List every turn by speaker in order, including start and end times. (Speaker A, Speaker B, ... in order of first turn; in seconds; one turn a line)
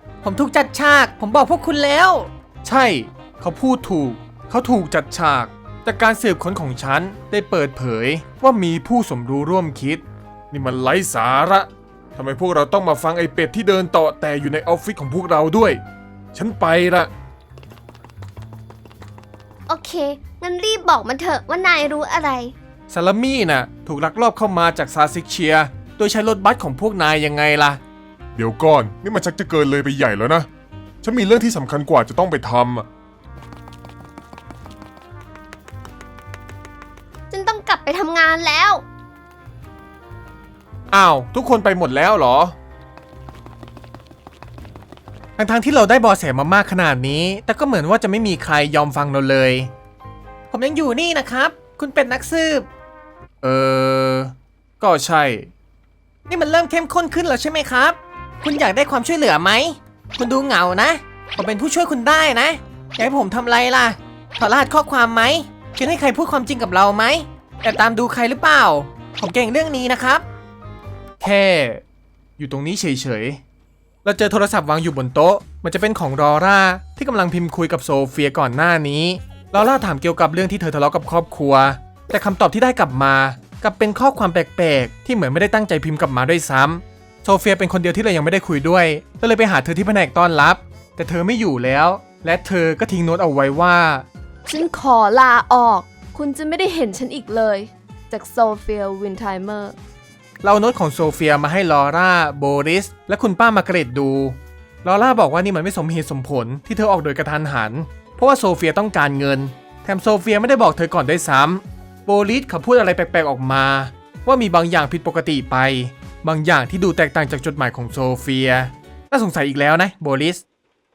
Speaker A: 0.2-10.0
Speaker B: 10.5-15.8
Speaker B: 16.3-17.1
Speaker C: 19.7-22.5
Speaker A: 22.9-27.8
Speaker B: 28.3-30.5
Speaker B: 31.0-32.9
Speaker C: 37.3-38.8
Speaker A: 40.9-42.5
Speaker A: 45.4-49.7
Speaker A: 50.5-52.7
Speaker A: 53.4-55.5
Speaker A: 56.3-70.2
Speaker A: 71.2-71.8
Speaker A: 72.4-73.4
Speaker A: 74.0-94.0
Speaker D: 94.5-99.8
Speaker A: 100.4-120.4